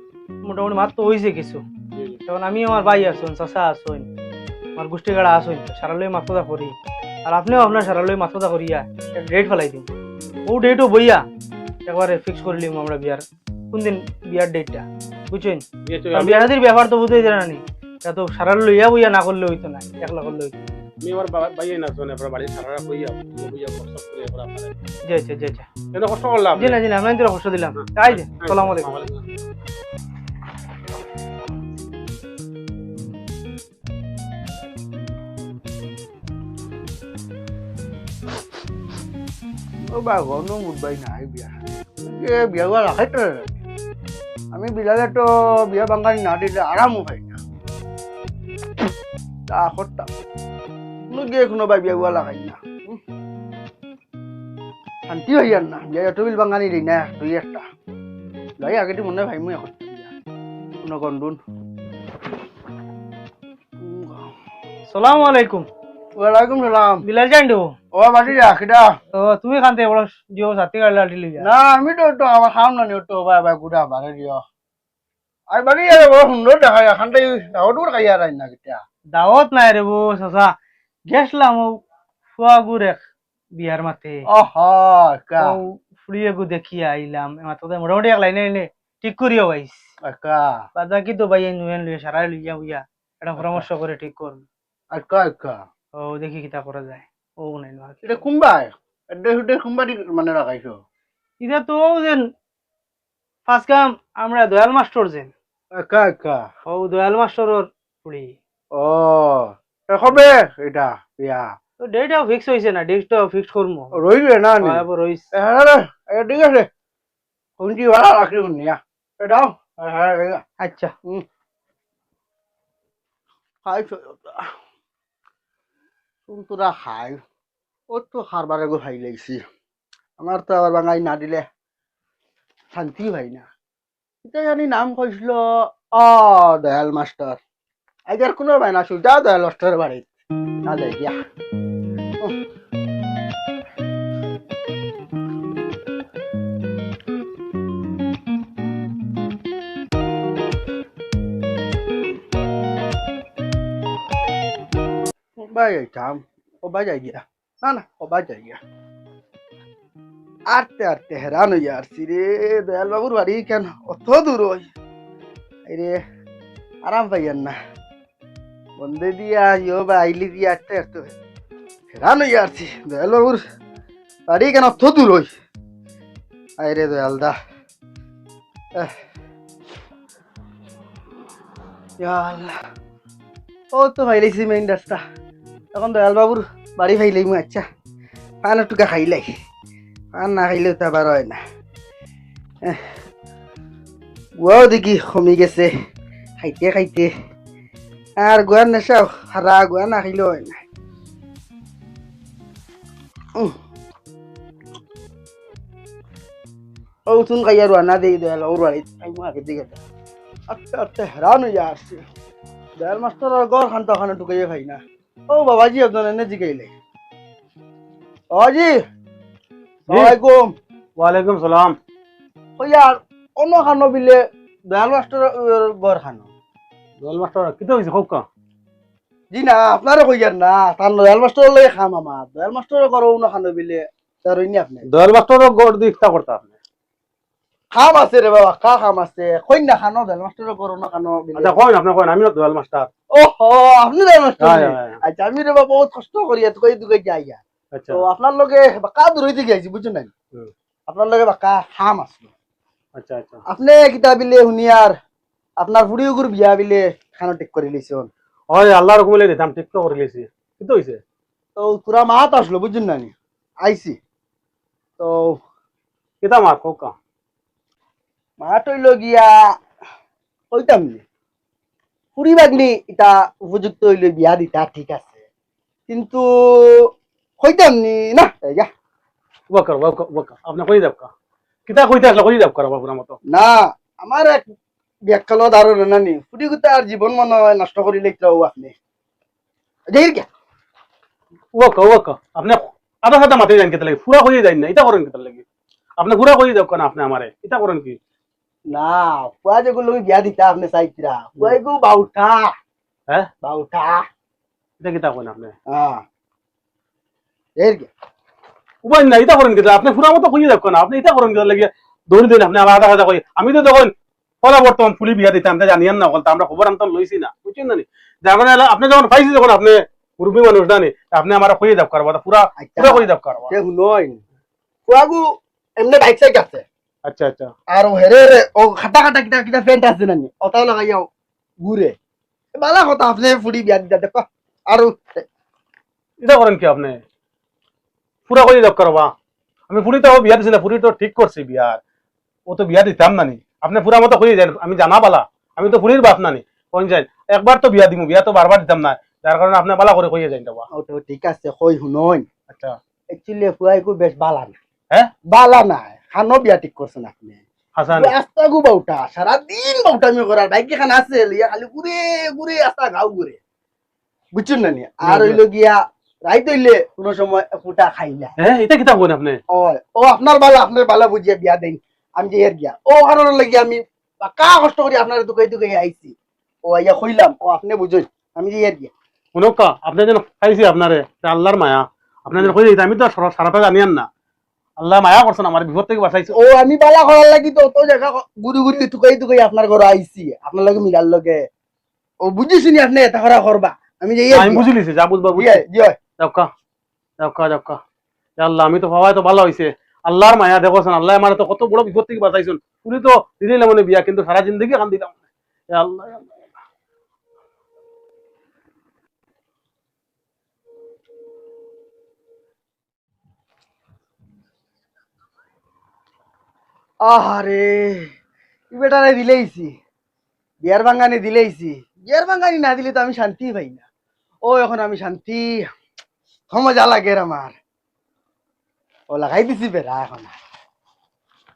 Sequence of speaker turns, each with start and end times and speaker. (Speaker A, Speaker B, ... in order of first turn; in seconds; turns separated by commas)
Speaker A: 0.4-1.6, Speaker B: 1.9-2.2, Speaker A: 2.3-4.1, Speaker A: 4.8-9.9, Speaker A: 10.5-11.2, Speaker A: 11.9-15.6, Speaker B: 15.9-16.5, Speaker A: 16.1-20.6, Speaker B: 21.0-24.7, Speaker A: 25.0-25.7, Speaker B: 25.9-26.8, Speaker A: 26.6-28.9, Speaker B: 27.8-29.2, Speaker C: 39.9-43.6, Speaker C: 44.5-47.4, Speaker C: 49.5-50.1, Speaker C: 51.1-53.0, Speaker C: 55.1-57.6, Speaker C: 58.6-60.1, Speaker C: 60.8-61.4, Speaker C: 63.8-64.3, Speaker A: 64.9-65.7, Speaker C: 66.2-67.0, Speaker A: 67.0-67.7, Speaker C: 67.9-68.9, Speaker A: 69.1-71.5, Speaker C: 71.4-74.4, Speaker C: 75.5-78.8, Speaker A: 79.1-80.5, Speaker A: 81.1-81.8, Speaker A: 82.4-83.0, Speaker A: 83.5-84.2, Speaker C: 84.3-85.6, Speaker A: 85.4-89.9, Speaker C: 90.0-90.7, Speaker A: 90.8-94.4, Speaker C: 93.4-93.6, Speaker C: 94.9-95.6, Speaker A: 96.0-98.0, Speaker C: 98.0-100.8, Speaker A: 101.4-102.2, Speaker A: 103.5-105.3, Speaker C: 105.7-106.5, Speaker A: 106.7-108.3, Speaker C: 108.7-111.5, Speaker A: 111.8-114.0, Speaker C: 113.9-116.7, Speaker A: 114.6-115.3, Speaker C: 117.6-120.4, Speaker A: 120.6-120.9, Speaker C: 123.6-124.5, Speaker C: 126.3-127.2, Speaker C: 127.9-129.4, Speaker C: 130.2-131.4, Speaker C: 132.7-133.5, Speaker C: 134.2-137.4, Speaker C: 138.1-140.1, Speaker C: 140.6-141.1, Speaker C: 155.4-158.6, Speaker C: 160.5-164.7, Speaker C: 165.7-166.0, Speaker C: 166.8-167.6, Speaker C: 168.8-171.1, Speaker C: 171.9-173.4, Speaker C: 174.3-175.3, Speaker C: 176.6-177.3, Speaker C: 182.0-182.5, Speaker C: 183.7-185.0, Speaker C: 185.7-187.6, Speaker C: 188.4-189.2, Speaker C: 190.1-191.4, Speaker C: 194.4-195.7, Speaker C: 196.4-197.1, Speaker C: 198.2-200.6, Speaker C: 207.1-209.8, Speaker C: 210.5-212.0, Speaker C: 212.8-216.7, Speaker C: 218.3-218.8, Speaker C: 219.9-220.5, Speaker B: 219.9-220.2, Speaker B: 221.0-221.8, Speaker C: 222.6-224.2, Speaker C: 224.7-226.3, Speaker B: 227.0-228.2, Speaker C: 229.3-234.8, Speaker B: 234.9-236.6, Speaker C: 237.7-241.5, Speaker B: 241.4-242.9, Speaker C: 243.1-250.1, Speaker B: 244.4-245.0, Speaker B: 247.7-248.0, Speaker C: 250.9-252.3, Speaker B: 252.9-253.4, Speaker C: 253.5-254.9, Speaker C: 255.6-258.1, Speaker B: 258.5-261.0, Speaker C: 261.6-264.0, Speaker C: 265.0-265.4, Speaker B: 266.2-266.9, Speaker C: 268.4-269.3, Speaker C: 270.5-271.0, Speaker C: 272.2-275.2, Speaker C: 275.9-278.7, Speaker B: 279.5-281.1, Speaker B: 281.7-283.2, Speaker C: 283.3-284.4, Speaker C: 285.1-288.8, Speaker C: 289.9-290.3, Speaker B: 291.5-295.4, Speaker B: 296.0-298.0, Speaker C: 298.7-302.5, Speaker C: 303.4-304.0, Speaker B: 304.8-305.5, Speaker C: 305.7-306.0, Speaker C: 307.6-307.9, Speaker B: 308.8-323.5, Speaker C: 322.6-324.2, Speaker C: 324.9-325.2, Speaker C: 325.8-326.6, Speaker B: 327.1-327.5, Speaker C: 327.7-331.1, Speaker C: 331.6-331.9, Speaker C: 332.6-335.3, Speaker B: 336.2-337.0, Speaker B: 338.3-339.1, Speaker B: 339.7-341.8, Speaker B: 342.5-350.6, Speaker C: 350.7-352.3, Speaker B: 352.5-352.8, Speaker C: 353.1-354.6, Speaker C: 355.3-363.4, Speaker B: 357.8-358.1, Speaker C: 364.3-368.3, Speaker B: 365.0-365.4, Speaker B: 368.4-369.4, Speaker C: 369.5-376.2, Speaker C: 376.7-378.9, Speaker B: 379.4-384.1, Speaker B: 384.8-386.4, Speaker C: 386.3-391.5, Speaker C: 392.2-394.7, Speaker B: 394.3-395.6, Speaker C: 395.3-396.0, Speaker B: 396.2-396.5, Speaker B: 397.2-397.8, Speaker B: 398.4-405.1, Speaker B: 405.7-406.3, Speaker C: 417.1-418.1, Speaker C: 418.7-419.7, Speaker C: 420.6-423.9, Speaker C: 424.4-425.7, Speaker C: 426.5-427.6, Speaker C: 429.1-430.4